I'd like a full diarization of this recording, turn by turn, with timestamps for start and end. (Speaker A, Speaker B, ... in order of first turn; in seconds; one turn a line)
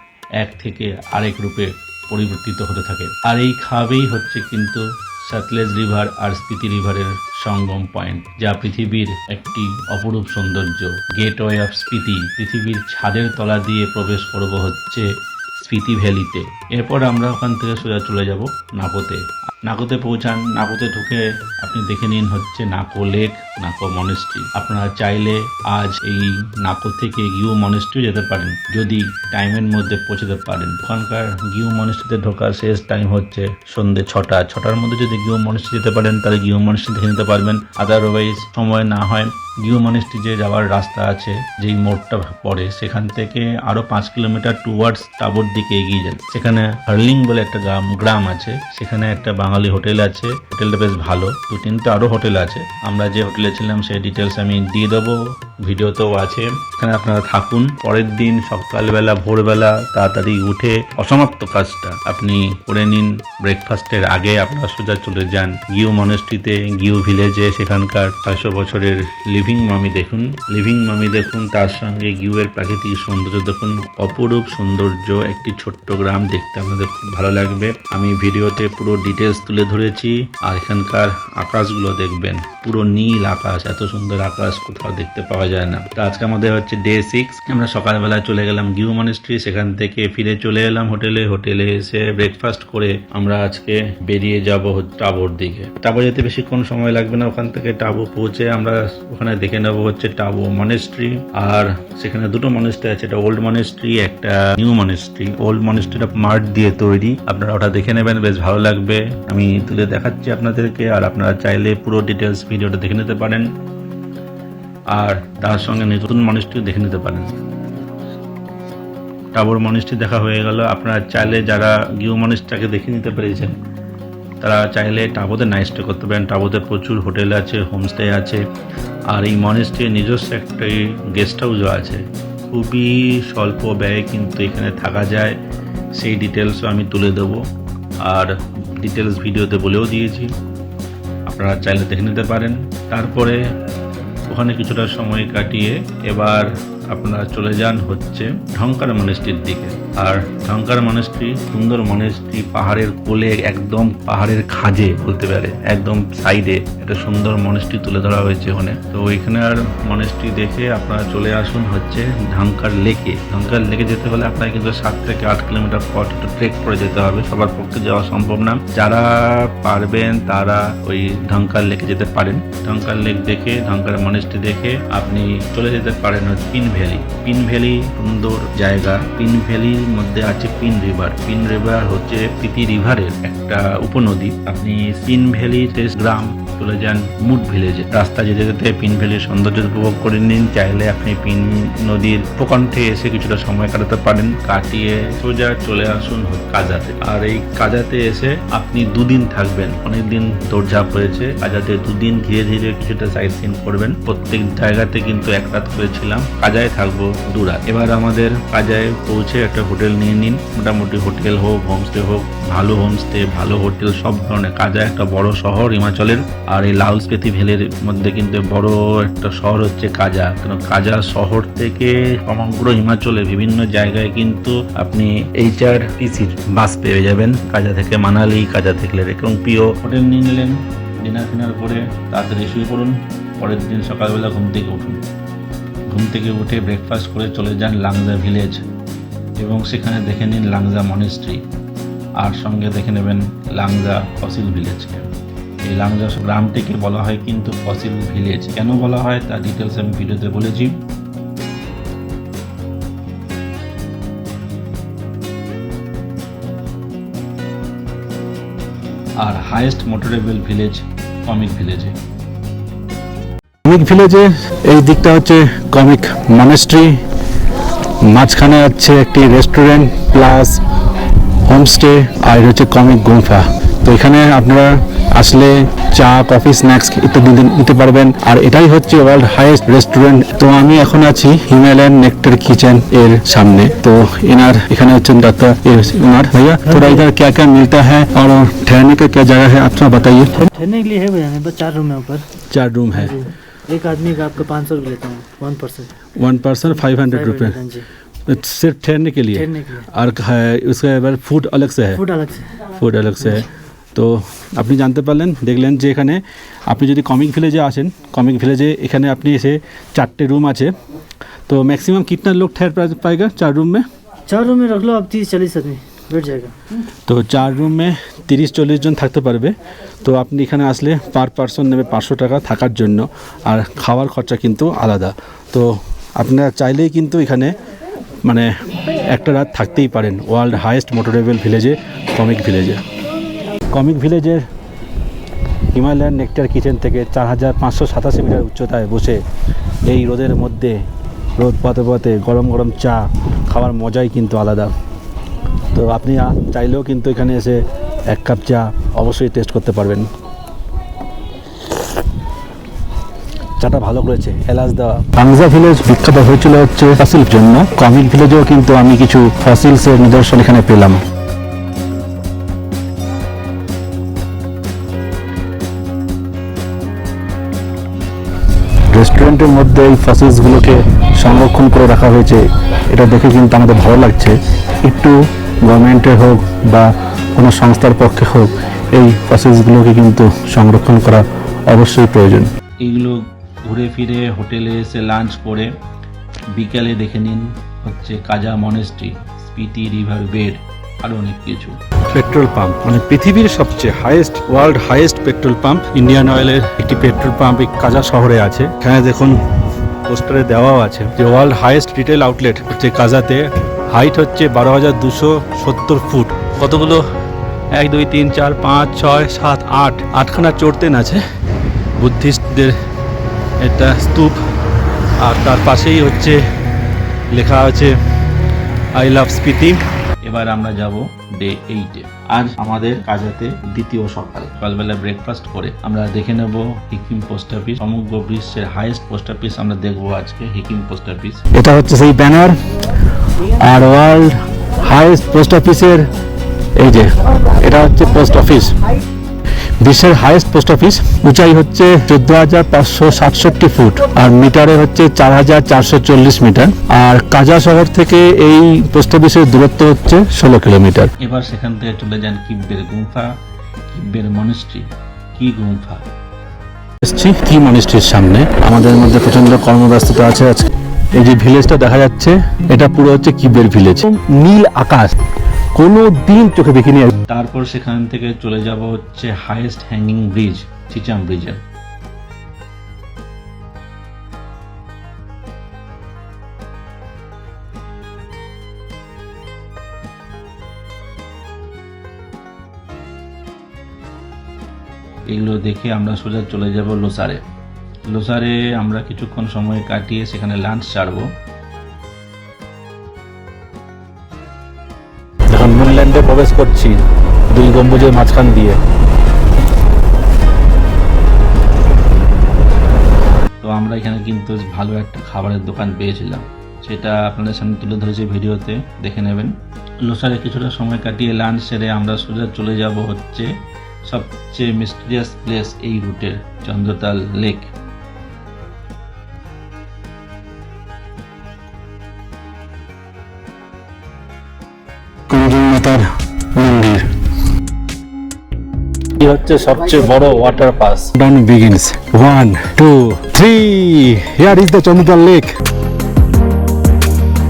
Speaker A: 0.4-113.5
Speaker A: 114.9-117.4
Speaker A: 119.3-123.6
Speaker A: 124.4-128.4
Speaker A: 129.1-135.3
Speaker A: 136.0-137.4
Speaker A: 138.1-140.3
Speaker A: 141.3-143.4
Speaker A: 144.3-235.1
Speaker A: 235.9-238.6
Speaker A: 239.4-241.4
Speaker A: 242.2-245.1
Speaker A: 245.7-250.8
Speaker A: 259.2-261.9
Speaker B: 263.7-267.0
Speaker B: 268.1-270.6
Speaker B: 271.5-290.5
Speaker C: 286.7-287.1
Speaker C: 290.6-292.2
Speaker B: 292.5-293.1
Speaker C: 292.9-295.9
Speaker B: 296.2-297.6
Speaker C: 296.7-297.9
Speaker B: 298.3-302.0
Speaker C: 299.3-299.9
Speaker C: 301.9-303.5
Speaker B: 302.8-310.7
Speaker B: 311.5-313.8
Speaker C: 314.3-316.5
Speaker B: 317.1-327.5
Speaker B: 329.1-332.8
Speaker B: 333.7-334.4
Speaker B: 335.7-339.2
Speaker B: 339.9-340.8
Speaker B: 341.4-344.7
Speaker B: 345.7-350.1
Speaker B: 353.6-361.0
Speaker B: 368.9-382.5
Speaker A: 382.8-385.7
Speaker A: 386.6-391.8
Speaker B: 392.1-399.4
Speaker B: 400.1-407.1
Speaker B: 407.8-411.2
Speaker B: 412.0-412.8
Speaker B: 413.6-414.4
Speaker B: 415.2-416.4
Speaker B: 417.3-417.9
Speaker B: 419.0-419.8
Speaker A: 420.2-431.4
Speaker B: 431.6-432.6
Speaker B: 433.6-436.1
Speaker B: 436.8-438.7
Speaker B: 439.8-451.1
Speaker A: 451.2-453.3
Speaker A: 453.9-456.0
Speaker B: 457.0-465.2
Speaker B: 465.8-467.2
Speaker A: 467.3-471.6
Speaker A: 485.3-487.4
Speaker A: 488.1-491.3
Speaker B: 495.5-498.8
Speaker A: 503.6-513.5
Speaker A: 514.1-517.7
Speaker B: 525.3-527.1
Speaker B: 529.2-535.5
Speaker A: 529.6-530.0
Speaker A: 530.6-531.1